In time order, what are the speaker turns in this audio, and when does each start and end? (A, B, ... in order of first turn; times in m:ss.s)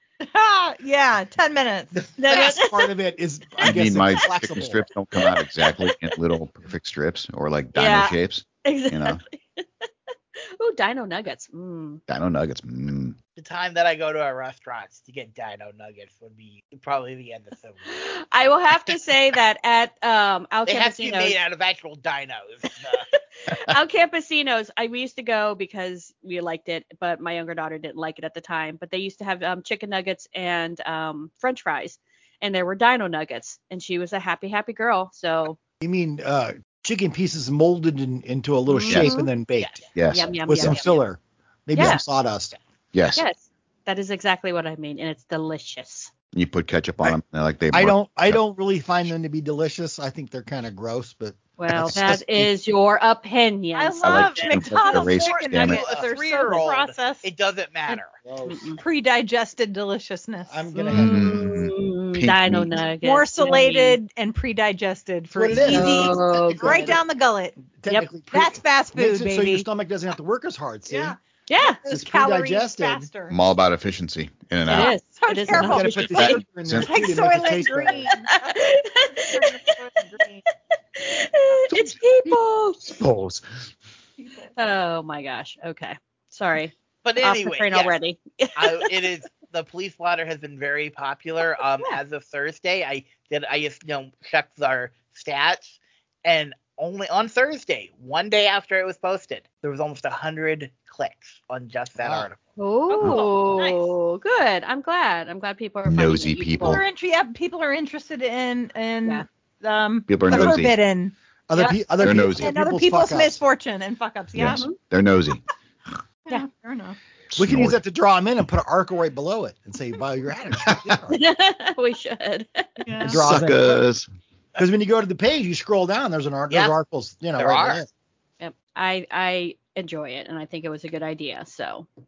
0:00.2-0:01.9 A
0:01.9-0:04.9 B
0:02.2-0:02.9 C
0:03.6-0:09.2 D
0:05.2-0:06.1 C
0:07.8-0:09.9 C
0:10.6-0:12.0 C
0:12.1-0:13.2 D
0:13.4-0:18.0 E
0:17.9-0:21.4 C
0:20.7-0:23.0 E
0:23.0-0:35.6 C
0:35.8-0:39.8 B
0:38.7-0:39.3 C
0:39.9-0:40.8 D
0:40.1-0:41.0 C
0:40.4-0:42.5 B
0:41.7-0:42.0 C
0:42.9-0:43.2 D
0:43.1-0:46.1 C
0:46.3-0:48.4 D
0:47.7-0:51.4 B
0:51.6-0:55.0 C
0:51.7-0:52.5 D
0:53.7-0:57.2 A
0:54.0-0:55.8 D
0:54.9-0:58.2 E
0:58.2-0:58.8 B
0:58.4-0:58.8 C
0:58.8-1:00.9 A
1:00.5-1:01.2 B
1:00.9-1:04.0 C
1:00.9-1:02.8 D
1:03.0-1:07.6 A
1:05.3-1:07.0 B
1:05.5-1:06.9 C
1:07.7-1:11.2 B
1:08.2-1:09.6 A
1:10.9-1:13.4 A
1:11.5-1:11.8 C
1:11.9-1:13.1 B
1:13.3-1:14.9 D
1:14.7-1:16.3 C
1:14.7-1:20.4 A
1:15.5-1:18.1 B
1:16.1-1:16.9 D
1:18.2-1:19.8 C
1:21.0-1:23.0 C
1:21.7-1:22.0 D
1:22.9-1:23.7 D
1:24.5-1:29.0 C
1:27.0-1:28.0 E
1:28.6-1:42.4 E
1:42.6-1:46.8 C
1:42.9-1:43.9 A
1:45.8-1:46.8 D
1:46.6-1:54.7 A
1:50.1-1:50.8 D
1:51.5-1:53.4 B
1:52.0-1:52.5 D
1:54.3-1:55.4 D
1:54.4-1:54.8 C
1:56.3-1:57.0 A
1:57.3-1:57.8 D
1:57.3-2:01.2 B
2:01.1-2:02.8 C
2:02.8-2:03.2 A
2:03.0-2:03.8 B
2:03.1-2:04.1 D
2:04.6-2:07.9 B
2:06.5-2:06.7 E
2:07.4-2:07.8 E
2:08.4-2:11.8 C